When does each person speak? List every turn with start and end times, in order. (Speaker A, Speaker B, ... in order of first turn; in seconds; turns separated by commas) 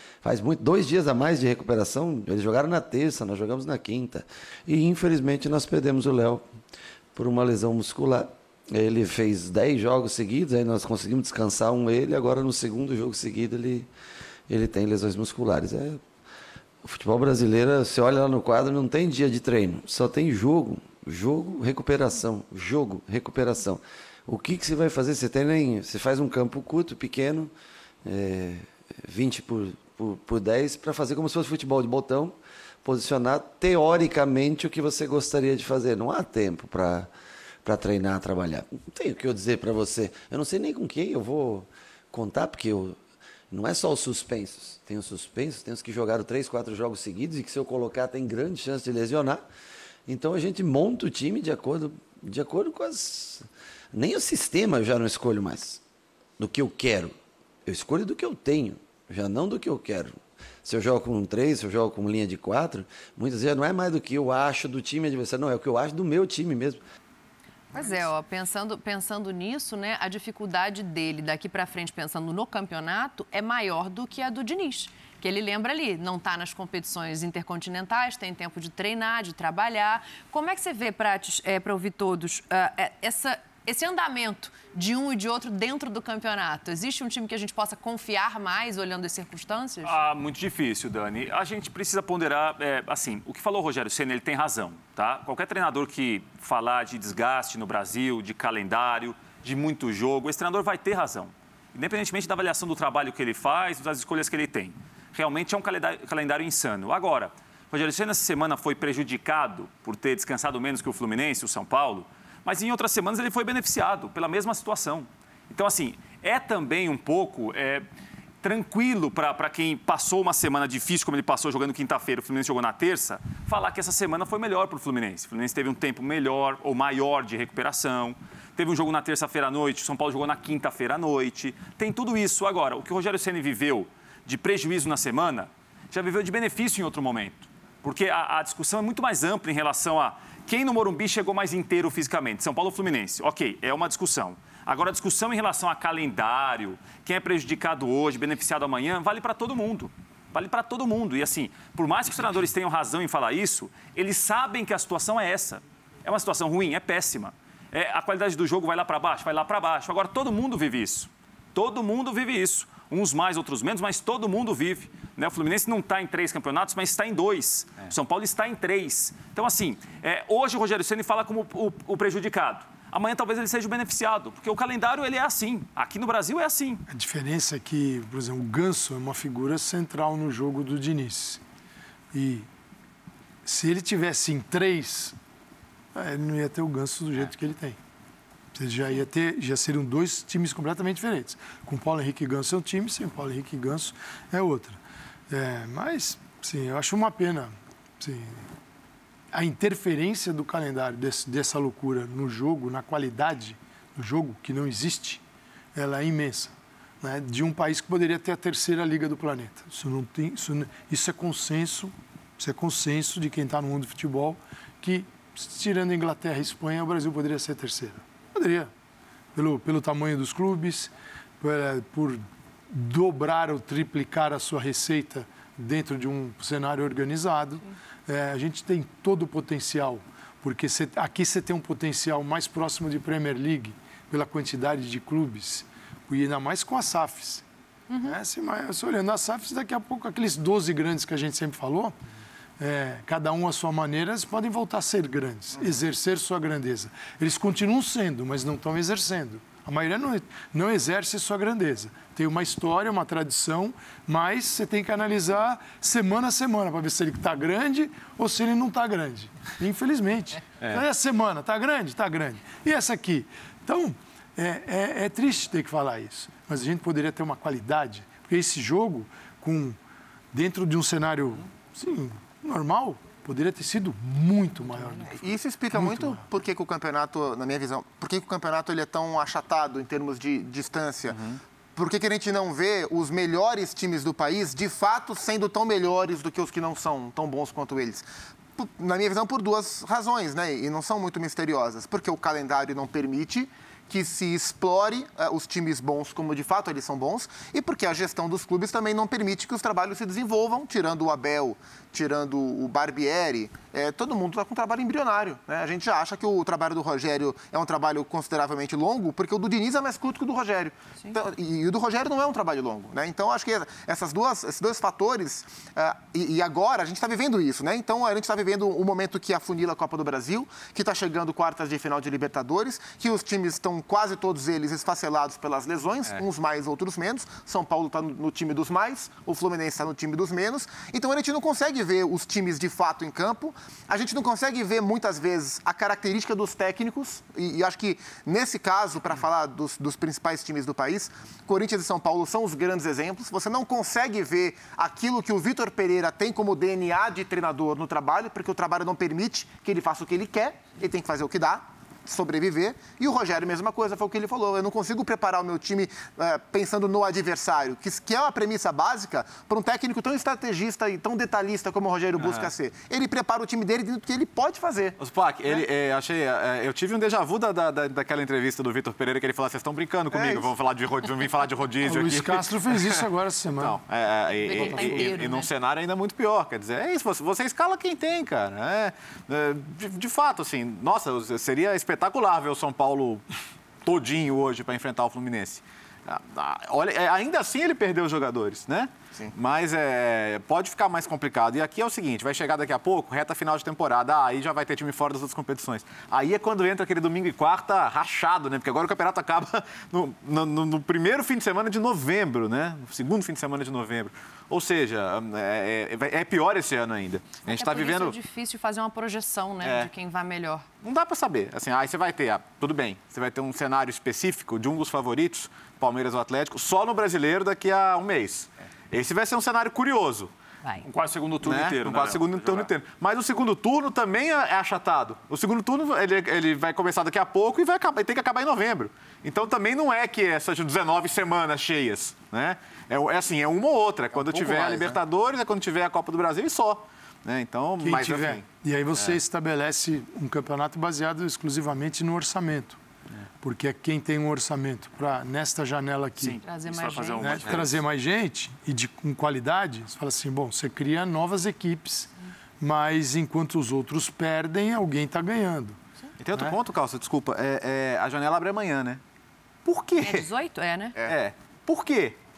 Speaker A: 0.2-6.4, Speaker A: 7.1-13.9, Speaker A: 14.5-16.0, Speaker A: 16.8-27.5, Speaker A: 28.0-37.1, Speaker A: 37.6-43.0, Speaker A: 43.5-49.4, Speaker A: 50.1-55.8, Speaker A: 56.4-57.1, Speaker A: 57.6-66.8, Speaker B: 67.7-89.9, Speaker C: 89.8-117.8, Speaker C: 118.4-176.8, Speaker D: 176.9-181.4, Speaker D: 182.1-182.5, Speaker D: 183.4-185.1, Speaker D: 185.9-187.8, Speaker D: 188.5-194.8, Speaker D: 195.3-198.5, Speaker D: 199.3-205.2, Speaker D: 205.7-218.7, Speaker D: 219.3-237.4, Speaker B: 237.9-238.2, Speaker D: 238.0-241.9, Speaker D: 242.6-269.8, Speaker D: 270.3-276.2, Speaker E: 275.1-281.2, Speaker F: 281.1-281.4, Speaker E: 281.8-288.0, Speaker E: 288.6-365.0, Speaker F: 362.2-362.5, Speaker F: 365.0-373.0, Speaker E: 370.1-370.5, Speaker D: 371.8-373.8, Speaker F: 373.5-383.2, Speaker B: 374.4-375.5, Speaker F: 383.8-408.1, Speaker B: 407.5-410.6, Speaker F: 409.6-409.9, Speaker F: 410.8-420.3, Speaker C: 420.8-422.7, Speaker F: 421.4-438.4, Speaker E: 434.1-435.0, Speaker D: 437.8-442.8, Speaker D: 443.4-446.4, Speaker C: 446.2-447.6, Speaker B: 446.4-447.4, Speaker D: 447.2-455.8, Speaker F: 447.4-447.7, Speaker F: 456.2-459.0, Speaker F: 459.6-460.3, Speaker B: 460.0-460.9, Speaker F: 461.1-462.2